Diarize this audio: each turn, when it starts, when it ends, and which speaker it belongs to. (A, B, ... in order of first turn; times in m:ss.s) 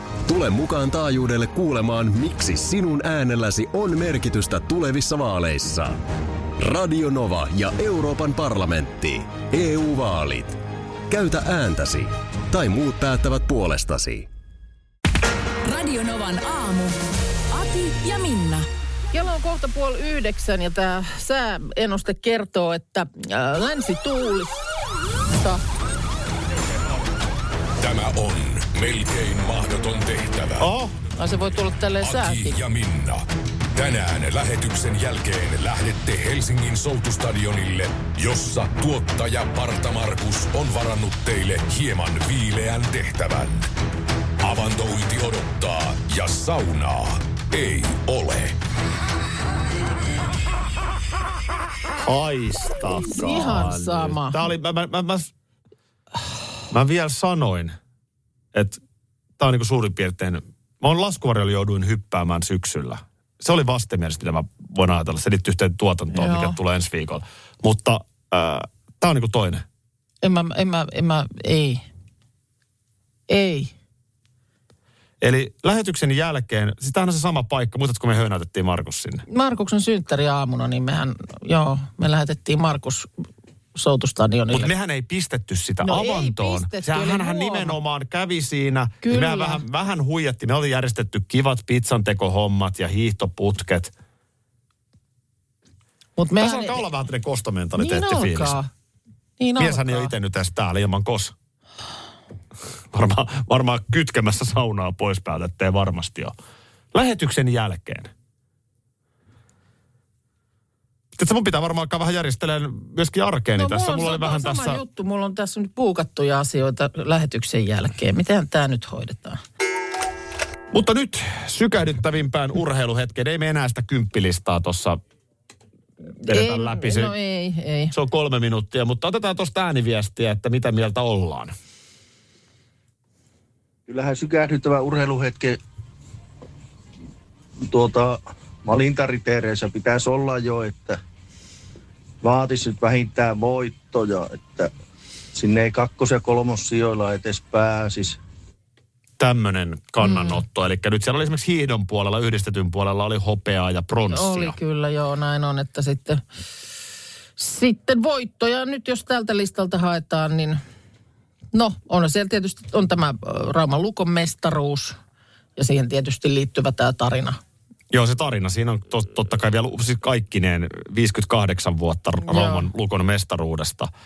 0:00.2-0:06.0 A
0:06.6-0:14.3 A
0:15.6-0:18.6 B
0:19.1-0:24.6 C
0:25.4-0:25.6 C
0:27.8-0:30.7 D
0:30.6-0:30.9 E
0:31.2-0:32.6 C
0:32.0-0:43.7 D
0:44.4-0:48.6 D
0:52.0-0:55.3 E
0:53.1-0:54.4 C
0:56.7-0:57.7 E
0:58.5-0:58.8 E
0:59.4-1:09.6 E
1:06.1-1:06.6 C
1:10.2-1:11.8 C
1:13.3-1:13.7 C
1:15.2-1:19.2 E
1:19.3-1:23.1 C
1:23.7-1:24.7 C
1:24.5-1:33.9 E
1:25.8-1:27.8 C
1:29.0-1:29.6 C
1:36.2-1:36.8 C
1:36.4-1:38.6 E
1:37.8-1:38.7 C
1:39.4-1:40.1 C
1:39.6-1:41.3 E
1:42.9-1:46.3 E
1:46.9-1:48.1 E
1:51.1-1:54.8 E
1:53.6-1:59.4 C
2:00.7-2:05.0 E
2:06.2-2:07.1 E
2:06.3-2:07.9 C
2:07.9-2:11.5 E
2:13.9-2:15.6 F
2:17.6-2:21.0 F
2:22.2-2:24.7 F
2:25.3-2:28.2 F
2:29.2-2:34.6 E
2:30.0-2:30.4 C
2:34.1-2:36.2 C
2:37.4-2:40.6 C
2:41.5-2:45.0 C
2:45.6-2:47.4 C
2:47.9-2:53.9 E
2:52.3-2:52.6 C